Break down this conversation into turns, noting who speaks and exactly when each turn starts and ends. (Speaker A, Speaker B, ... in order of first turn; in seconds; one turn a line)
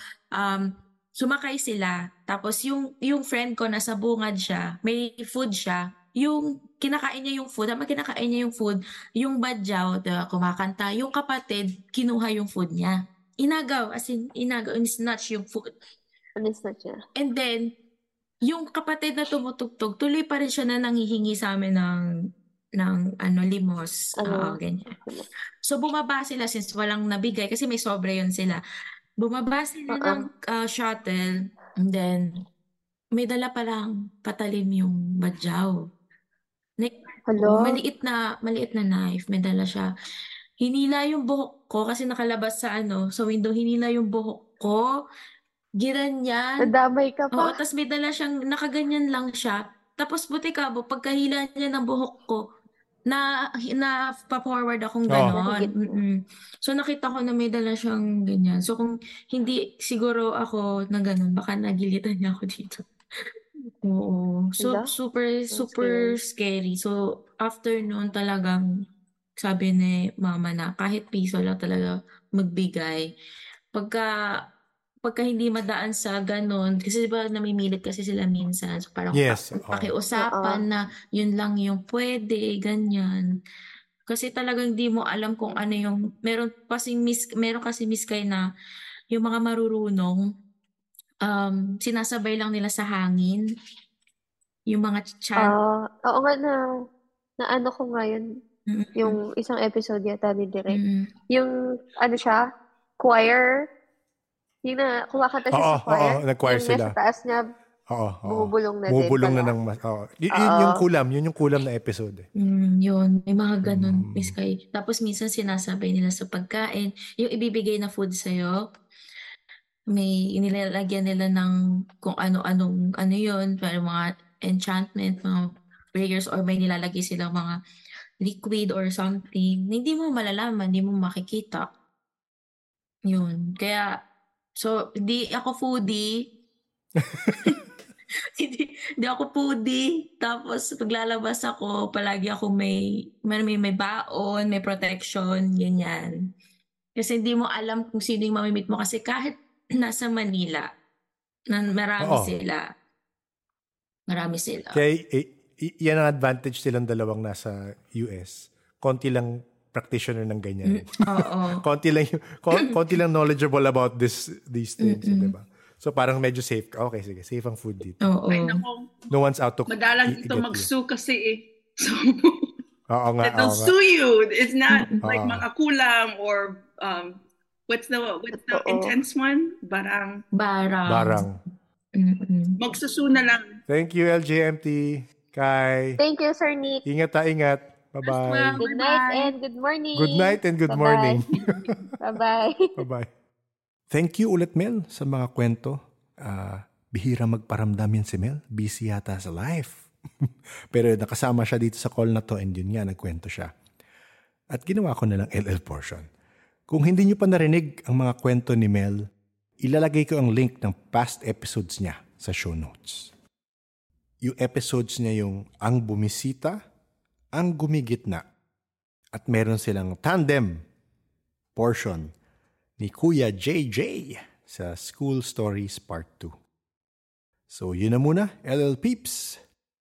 Speaker A: 0.3-15.7
Speaker B: 16.4-17.0
Speaker A: 17.2-17.7
Speaker A: 18.4-22.1
Speaker A: 22.8-25.0
Speaker B: 24.2-25.2
Speaker A: 25.6-28.6
Speaker A: 29.2-32.3
Speaker B: 29.9-30.2
Speaker A: 33.2-35.8
Speaker A: 36.8-39.9
Speaker B: 37.3-37.8
Speaker A: 40.6-44.9
Speaker A: 45.8-46.6
Speaker B: 46.6-47.6
Speaker A: 47.4-52.4
Speaker A: 53.1-62.8
Speaker C: 55.1-55.4
Speaker B: 55.3-56.0
Speaker A: 63.8-68.7
Speaker B: 64.6-64.9
Speaker B: 65.5-66.1
Speaker A: 69.4-73.0
Speaker A: 73.7-74.1
Speaker A: 75.0-83.3
Speaker C: 79.1-79.9
Speaker B: 80.2-80.6
Speaker A: 84.1-88.4
Speaker A: 89.1-90.2
Speaker A: 91.2-93.4
Speaker A: 94.7-95.5
Speaker B: 95.4-96.6
Speaker B: 97.4-98.3
Speaker A: 98.7-99.2
Speaker B: 99.0-100.8
Speaker A: 100.7-101.1
Speaker B: 101.3-102.4
Speaker B: 103.0-103.5
Speaker B: 104.7-107.4
Speaker C: 105.5-107.0
Speaker C: 107.9-112.3
Speaker B: 108.3-109.5
Speaker B: 110.3-110.8
Speaker A: 112.4-118.6
Speaker C: 113.7-114.4
Speaker A: 119.9-127.6
Speaker A: 128.2-131.7
Speaker A: 133.1-133.9
Speaker A: 134.6-136.2
Speaker C: 137.0-137.6
Speaker A: 137.3-137.6
Speaker A: 138.3-146.1
Speaker A: 147.0-150.7
Speaker A: 151.5-152.6
Speaker C: 152.0-152.4
Speaker A: 154.1-154.8
Speaker C: 154.7-168.1
Speaker A: 160.7-161.6
Speaker A: 164.8-165.3
Speaker A: 168.0-168.6
Speaker D: 168.3-169.1
Speaker C: 169.1-170.7
Speaker D: 169.7-172.5
Speaker C: 172.9-173.7
Speaker D: 173.2-180.2
Speaker A: 174.7-175.0
Speaker C: 175.0-175.5
Speaker B: 178.4-179.0
Speaker A: 180.3-181.3
Speaker C: 180.9-181.4
Speaker A: 182.0-182.6
Speaker D: 182.6-183.6
Speaker C: 183.7-186.0
Speaker B: 186.0-186.8
Speaker C: 186.8-188.6
Speaker D: 188.1-189.3
Speaker B: 188.6-191.2
Speaker C: 190.0-192.0
Speaker B: 192.0-192.7
Speaker C: 192.8-193.1
Speaker C: 193.9-203.5
Speaker C: 204.5-206.1
Speaker C: 206.7-209.1
Speaker C: 209.6-213.1
Speaker C: 214.2-216.6
Speaker C: 217.3-218.2
Speaker C: 219.1-220.6
Speaker C: 221.6-222.1
Speaker C: 222.8-226.4
Speaker C: 227.5-229.4